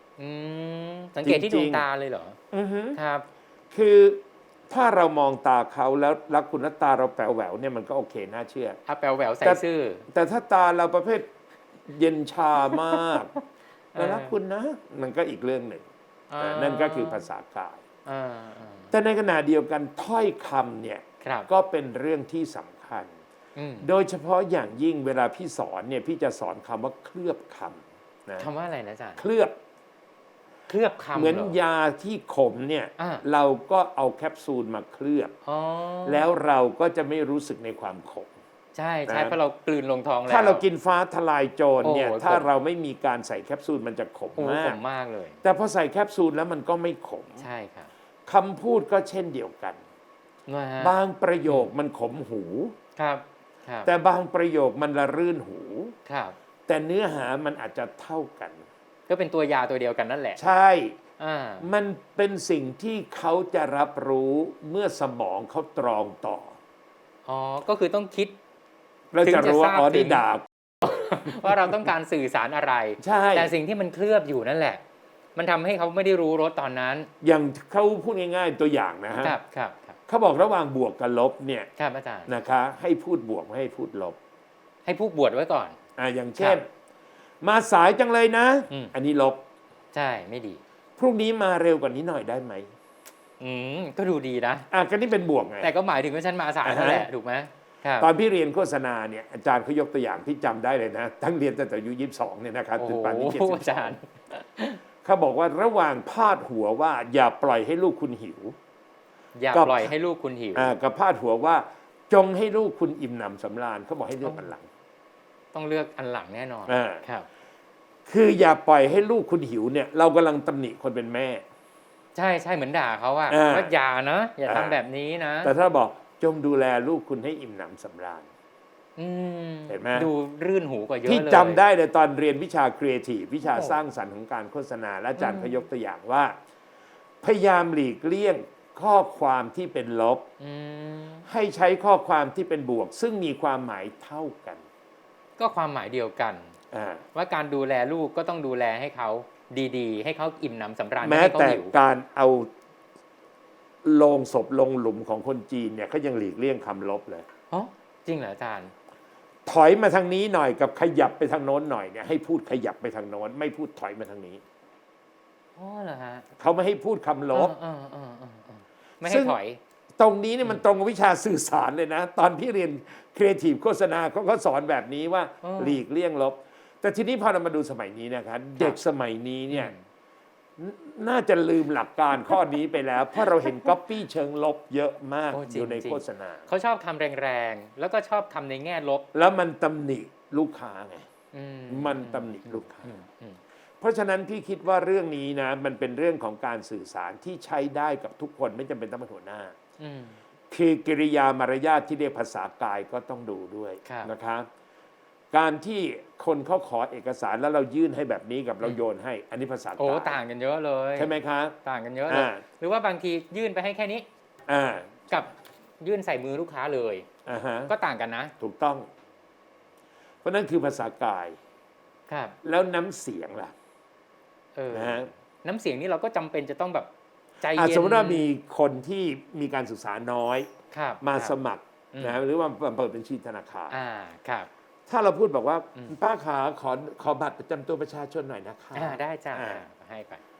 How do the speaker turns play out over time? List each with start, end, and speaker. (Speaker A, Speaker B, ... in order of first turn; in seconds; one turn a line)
Speaker A: 0.2-2.4
Speaker B: 1.2-1.9
Speaker B: 2.5-3.0
Speaker A: 3.0-3.3
Speaker B: 3.7-8.8
Speaker A: 8.9-10.1
Speaker B: 9.4-11.3
Speaker B: 11.9-13.3
Speaker A: 12.7-13.1
Speaker A: 13.9-14.3
Speaker B: 13.9-15.9
Speaker A: 16.3-17.3
Speaker B: 16.4-17.8
Speaker A: 18.1-18.9
Speaker B: 18.9-23.2
Speaker A: 21.2-21.5
Speaker A: 23.6-23.9
Speaker B: 23.8-28.5
Speaker A: 28.4-29.2
Speaker B: 29.2-29.6
Speaker A: 30.7-31.6
Speaker B: 31.1-35.4
Speaker A: 33.0-33.2
Speaker A: 35.5-36.3
Speaker B: 36.0-38.3
Speaker A: 38.8-40.6
Speaker B: 39.1-39.4
Speaker B: 40.3-44.8
Speaker A: 41.8-42.5
Speaker A: 44.4-45.4
Speaker B: 45.4-47.5
Speaker A: 47.4-47.9
Speaker B: 48.3-49.8
Speaker A: 50.5-51.0
Speaker B: 50.8-52.8
Speaker A: 53.0-53.9
Speaker B: 53.9-56.0
Speaker A: 56.1-56.4
Speaker B: 56.7-58.6
Speaker A: 59.1-60.4
Speaker B: 60.4-61.0
Speaker A: 61.2-61.7
Speaker B: 61.6-66.6
Speaker A: 67.3-68.4
Speaker B: 69.1-70.5
Speaker A: 69.2-70.2
Speaker A: 70.8-74.8
Speaker B: 71.4-71.7
Speaker B: 73.0-73.5
Speaker A: 75.4-77.1
Speaker B: 77.2-79.4
Speaker A: 79.2-80.0
Speaker B: 80.1-81.7
Speaker A: 81.8-82.3
Speaker B: 82.3-84.2
Speaker A: 84.8-85.8
Speaker B: 86.0-86.7
Speaker B: 87.4-89.4
Speaker A: 89.9-90.6
Speaker B: 91.0-92.7
Speaker A: 93.4-94.7
Speaker B: 94.7-95.7
Speaker A: 95.6-98.1
Speaker B: 96.6-97.1
Speaker B: 98.0-104.0
Speaker A: 102.8-104.8
Speaker B: 105.0-108.6
Speaker A: 109.4-110.7
Speaker B: 109.5-109.9
Speaker B: 110.5-114.7
Speaker A: 115.5-117.3
Speaker B: 116.7-117.0
Speaker B: 118.1-121.5
Speaker A: 122.2-125.5
Speaker B: 123.3-123.7
Speaker B: 124.5-124.8
Speaker B: 125.4-128.3
Speaker A: 129.0-131.6
Speaker B: 129.7-130.1
Speaker B: 131.1-136.4
Speaker A: 133.5-133.8
Speaker A: 135.2-135.6
Speaker B: 137.2-140.3
Speaker A: 140.4-141.2
Speaker B: 141.3-144.7
Speaker A: 145.4-146.6
Speaker B: 146.7-147.0
Speaker A: 147.2-151.7
Speaker B: 151.0-152.5
Speaker B: 153.8-157.3
Speaker A: 157.5-158.7
Speaker B: 159.5-164.4
Speaker A: 165.6-166.3
Speaker B: 166.4-167.6
Speaker A: 167.3-169.6
Speaker B: 169.0-169.4
Speaker B: 170.0-179.7
Speaker A: 175.4-175.8
Speaker A: 179.5-179.8
Speaker B: 180.6-186.5
Speaker A: 185.3-189.1
Speaker B: 189.1-191.1
Speaker A: 191.3-193.4
Speaker B: 191.7-192.9
Speaker B: 193.8-199.6
Speaker A: 199.8-200.2
Speaker B: 200.5-204.5
Speaker A: 203.8-204.1
Speaker B: 205.3-210.2
Speaker A: 209.8-214.1
Speaker B: 211.0-211.6
Speaker B: 212.1-212.4
Speaker B: 214.5-215.0
Speaker A: 215.1-217.1
Speaker B: 217.2-217.7
Speaker A: 217.7-218.3
Speaker B: 218.4-218.9
Speaker B: 220.2-221.4
Speaker A: 222.1-222.4
Speaker B: 222.4-223.5
Speaker A: 224.6-226.9
Speaker B: 224.7-225.1
Speaker A: 227.4-228.3
Speaker B: 227.5-233.8
Speaker A: 230.7-231.4
Speaker A: 231.9-232.2
Speaker A: 233.7-234.5
Speaker B: 234.9-239.6
Speaker A: 238.8-240.2